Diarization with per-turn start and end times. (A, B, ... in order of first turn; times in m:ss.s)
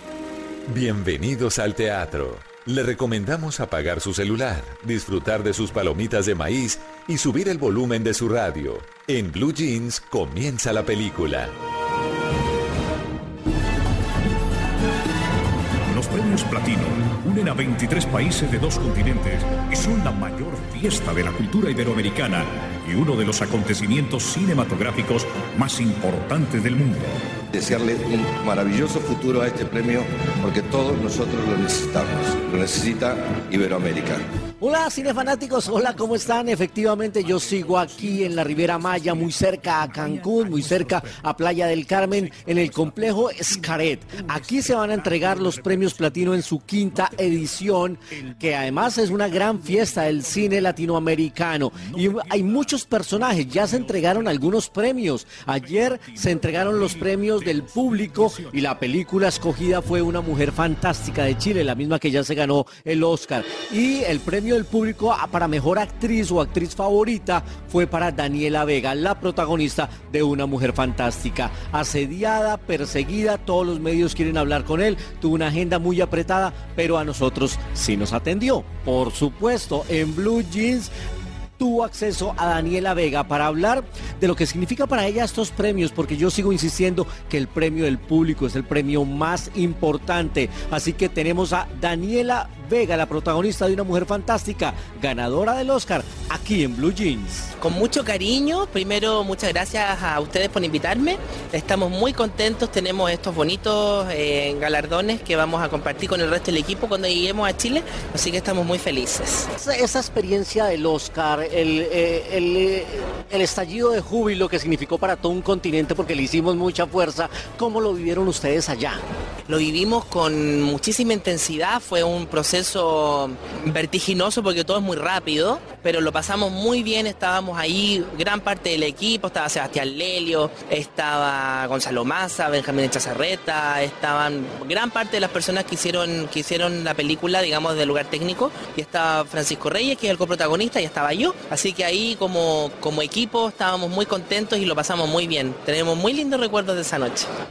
0:00.7-0:11.5 A
0:15.9-0:27.2 B
0:27.5-0:34.2 C
0:34.6-1:20.9 D
0:37.2-0:41.2 B
0:42.0-0:47.6 B
0:48.1-0:50.8 B
0:51.8-0:54.4 B
0:55.6-0:58.6 B
1:21.6-1:37.5 D
1:37.6-1:49.5 E
1:49.6-1:59.0 D
1:59.5-2:27.3 E